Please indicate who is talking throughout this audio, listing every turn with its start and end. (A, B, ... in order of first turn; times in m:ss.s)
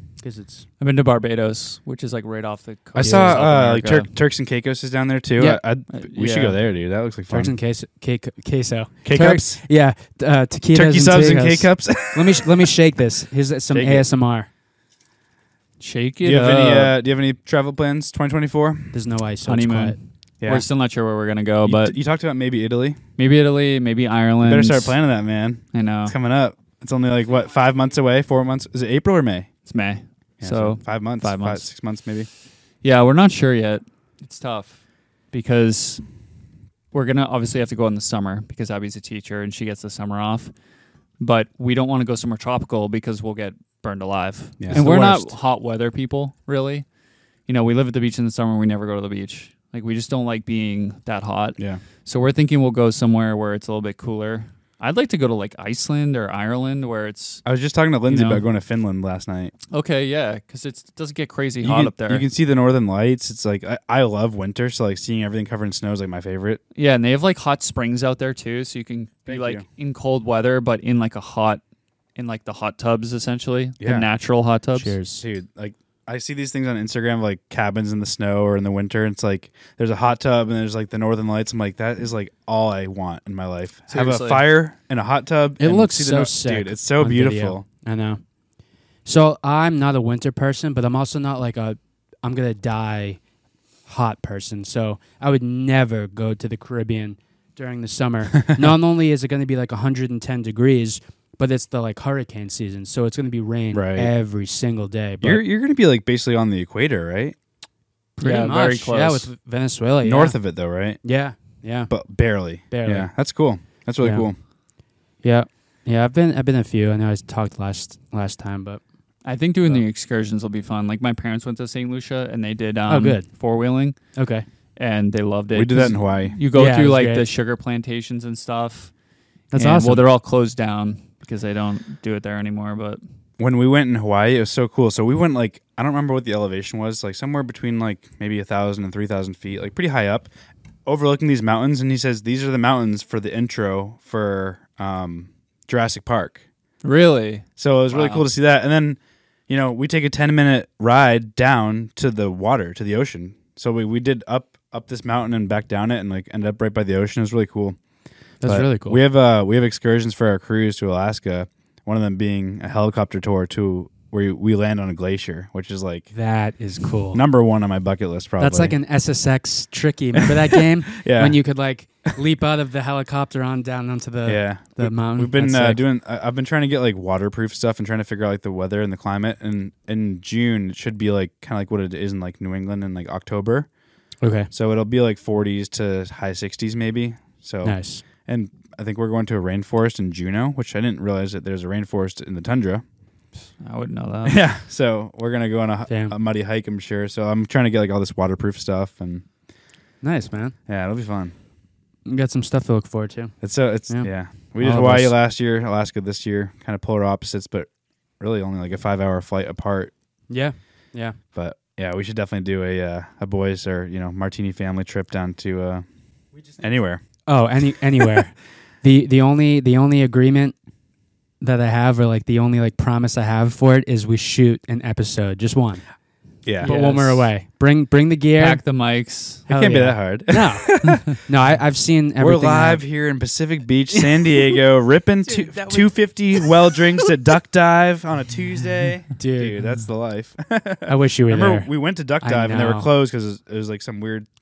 0:00.2-0:00.7 A
0:00.8-0:04.1 B
0:03.0-0:07.5 C
0:03.0-0:03.4 A
0:05.9-0:06.6 B
0:07.3-0:14.5 A
0:09.0-0:09.6 C
0:10.7-0:12.7 C
0:13.7-0:14.1 C
0:15.8-0:17.0 B
0:16.2-0:19.0 C
0:18.9-0:20.0 A
0:19.5-0:22.0 B
0:21.6-0:23.0 C
0:23.2-0:25.0 B
0:24.4-0:29.5 C
0:25.7-0:26.2 B
0:29.7-0:31.6 B
0:30.4-0:32.3 C
0:32.8-0:34.8 B
0:35.3-0:36.0 B
0:36.9-0:40.5 B
0:41.2-0:46.9 B
0:44.6-0:45.3 C
0:47.5-0:57.4 B
0:57.4-0:59.5 C
0:58.1-0:58.4 B
0:59.7-1:02.2 B
1:01.6-1:06.6 C
1:06.8-1:11.6 B
1:09.3-1:09.6 C
1:12.2-1:14.9 B
1:13.8-1:14.1 C
1:14.8-1:15.2 A
1:15.2-1:27.6 C
1:23.9-1:24.5 B
1:25.6-1:28.2 A
1:29.0-1:33.2 A
1:33.9-1:45.4 A
1:43.7-1:44.1 C
1:45.2-1:47.4 C
1:48.2-1:49.3 B
1:48.2-1:50.4 A
1:50.0-1:51.0 C
1:51.0-1:51.9 A
1:51.9-1:54.4 C
1:52.7-1:53.1 A
1:54.0-1:54.3 A
1:55.2-1:58.8 A
1:59.2-2:04.0 B
2:02.9-2:03.3 A
2:04.2-2:04.4 A
2:04.8-2:08.9 B
2:05.6-2:06.4 C
2:06.5-2:07.3 A
2:09.5-2:10.0 A
2:09.5-2:13.0 B
2:13.4-2:20.3 C
2:20.9-2:26.4 C
2:26.8-2:28.2 B
2:27.6-2:29.0 C
2:29.5-2:37.8 C
2:38.4-2:39.0 A
2:38.4-2:46.1 C
2:46.1-2:47.2 A
2:47.1-2:48.8 C
2:48.4-2:55.8 A
2:50.2-2:51.4 C
2:54.3-3:03.7 C
3:04.2-3:04.5 A
3:04.5-3:12.8 C
3:07.6-3:08.0 A
3:13.6-3:14.4 B
3:14.2-3:19.2 C
3:15.9-3:16.1 A
3:20.0-3:20.6 A
3:20.7-3:21.3 C
3:22.1-3:23.3 A
3:23.4-3:27.7 C
3:24.6-3:25.2 A
3:28.2-3:29.9 C
3:30.3-3:31.2 A
3:31.3-3:35.8 C
3:36.6-3:37.0 C
3:37.3-3:40.6 A
3:41.4-3:45.8 A
3:46.4-3:46.7 C
3:46.6-3:47.3 B
3:46.6-3:48.6 A
3:48.4-3:49.5 B
3:49.5-3:52.8 A
3:49.5-3:51.1 C
3:52.2-4:04.3 C
3:53.9-3:54.5 A
3:55.3-3:56.8 A
3:59.2-3:59.6 A
4:00.9-4:01.7 A
4:02.2-4:02.9 A